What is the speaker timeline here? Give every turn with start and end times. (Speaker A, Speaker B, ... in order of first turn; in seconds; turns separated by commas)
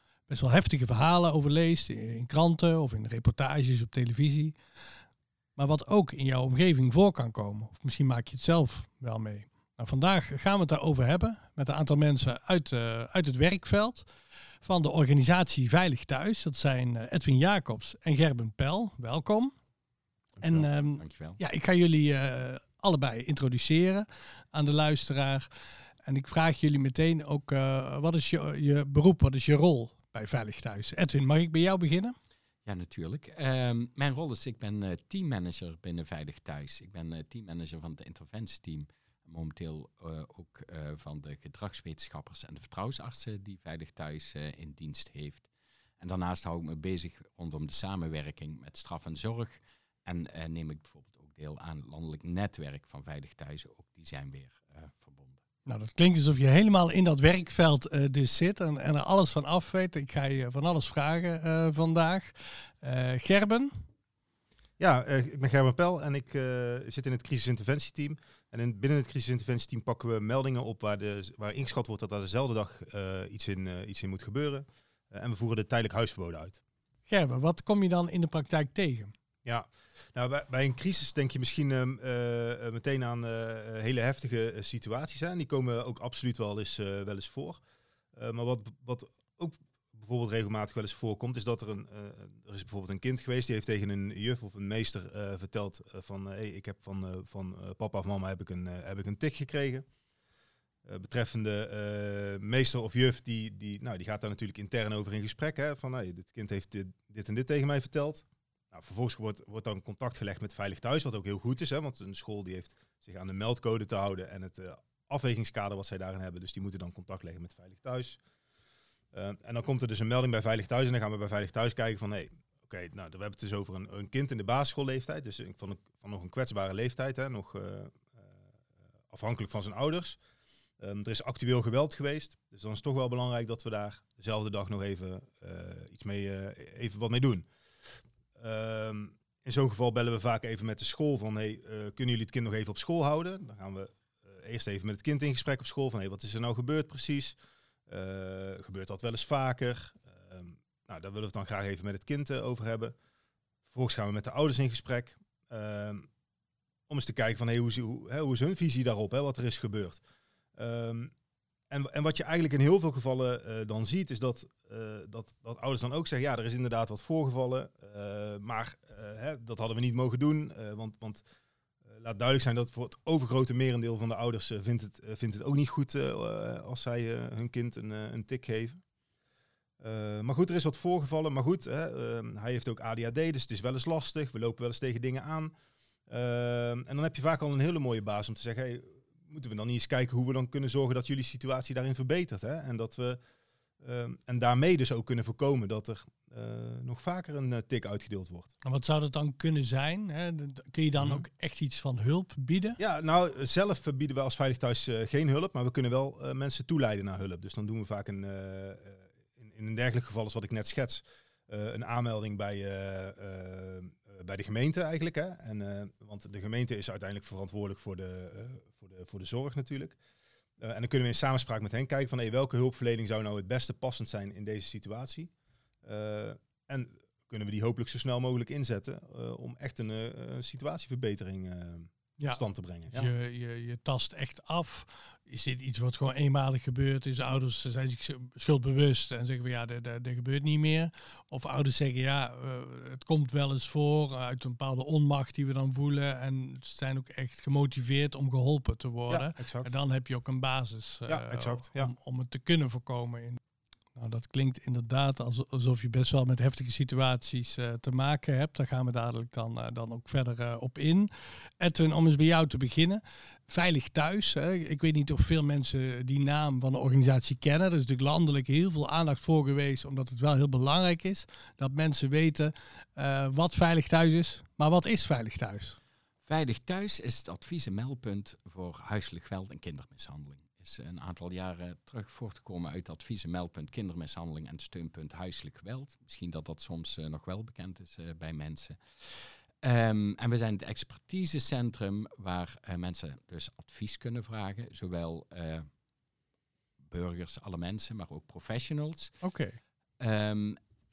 Speaker A: 0.3-4.6, Speaker A: 5.6-14.1, Speaker A: 14.6-19.5, Speaker B: 20.4-21.4, Speaker A: 20.4-25.5, Speaker A: 26.0-32.2, Speaker B: 32.6-45.5, Speaker B: 46.0-55.4, Speaker A: 55.7-63.8, Speaker C: 64.8-76.6, Speaker A: 77.1-79.1, Speaker C: 79.5-87.6, Speaker C: 88.1-99.9, Speaker C: 100.8-118.2, Speaker C: 119.1-128.3, Speaker C: 129.1-130.2, Speaker C: 130.8-137.5, Speaker C: 138.4-152.9, Speaker C: 153.7-156.1, Speaker C: 156.9-160.0, Speaker C: 160.6-161.1, Speaker C: 161.7-171.2, Speaker C: 171.8-178.8, Speaker C: 179.8-185.5, Speaker C: 186.1-193.2, Speaker C: 193.8-198.5, Speaker A: 198.6-202.8, Speaker C: 202.8-220.0, Speaker C: 220.6-225.3, Speaker C: 225.8-233.1, Speaker A: 232.2-253.4, Speaker C: 249.1-249.7, Speaker C: 251.1-251.9, Speaker A: 253.9-275.8, Speaker B: 276.2-295.7, Speaker B: 296.9-299.1, Speaker A: 299.2-299.6, Speaker B: 300.0-300.6